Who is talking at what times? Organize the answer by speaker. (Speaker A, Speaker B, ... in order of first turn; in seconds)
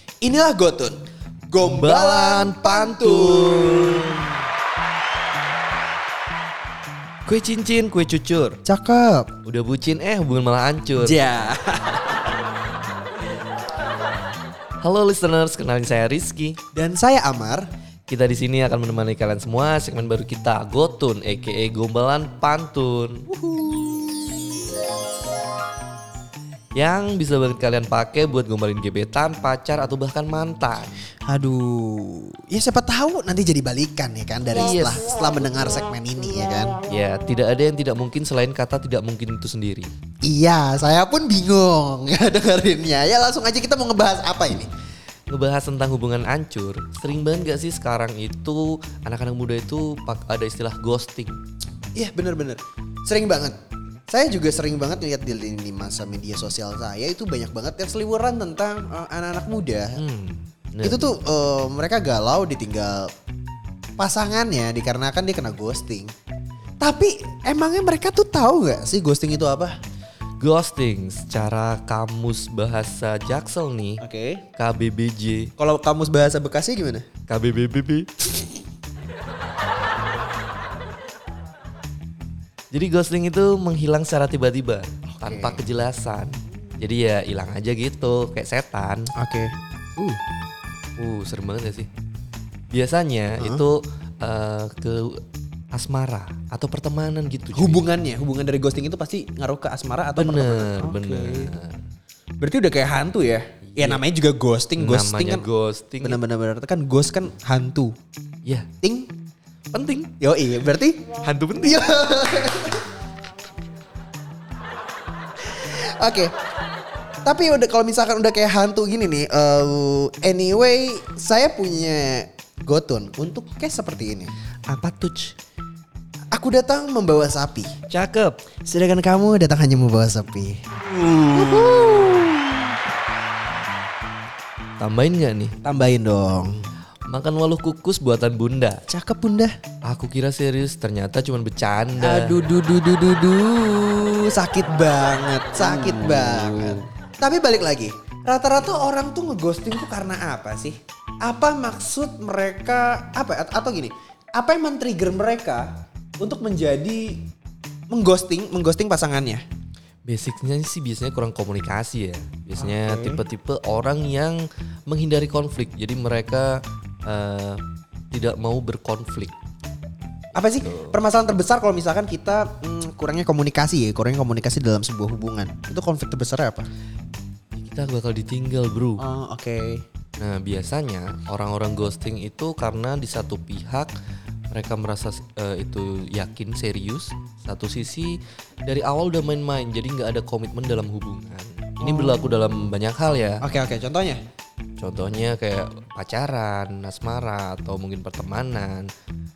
Speaker A: 0.2-4.2, 8.7-9.3, 11.0-12.3, 16.7-17.7, 23.3-24.5, 31.3-36.8, 40.2-44.7, 52.0-53.6, 54.1-60.0, 60.8-63.1, 64.0-66.1, 66.8-69.7, 74.0-74.4, 75.6-77.0, 85.1-85.7, 89.2-90.2, 93.4-93.7, 97.5-101.5, 102.4-105.5, 106.0-107.9, 108.8-109.1, 110.2-112.9, 115.5-116.3, 117.2-124.3, 126.3-127.7, 128.7-132.7, 135.6-136.6, 138.9-139.5, 142.0-157.2, 157.9-159.4, 162.6-163.2, 170.3-176.7, 179.0-179.8, 191.8-192.3, 193.4-194.2
Speaker B: 1.6-4.3, 7.3-8.6, 9.4-11.2, 14.8-16.6, 18.1-23.3, 26.8-31.0, 34.5-35.0, 36.9-39.9, 45.3-51.4, 60.0-61.1, 70.4-74.0, 74.6-75.5, 77.3-78.1, 82.7-89.1, 91.0-91.9, 92.7-95.2, 95.7-97.9, 100.2-101.8, 103.7-104.0, 104.8-106.2, 109.7-110.1, 111.2-112.0, 124.7-125.3, 127.9-128.4, 131.4-131.8, 134.8-135.6, 137.1-138.8, 139.9-142.5, 145.6-146.9, 160.1-167.6, 168.1-169.3, 170.4-171.0, 177.6-179.0, 180.2-183.9, 184.5-193.5, 194.8-198.9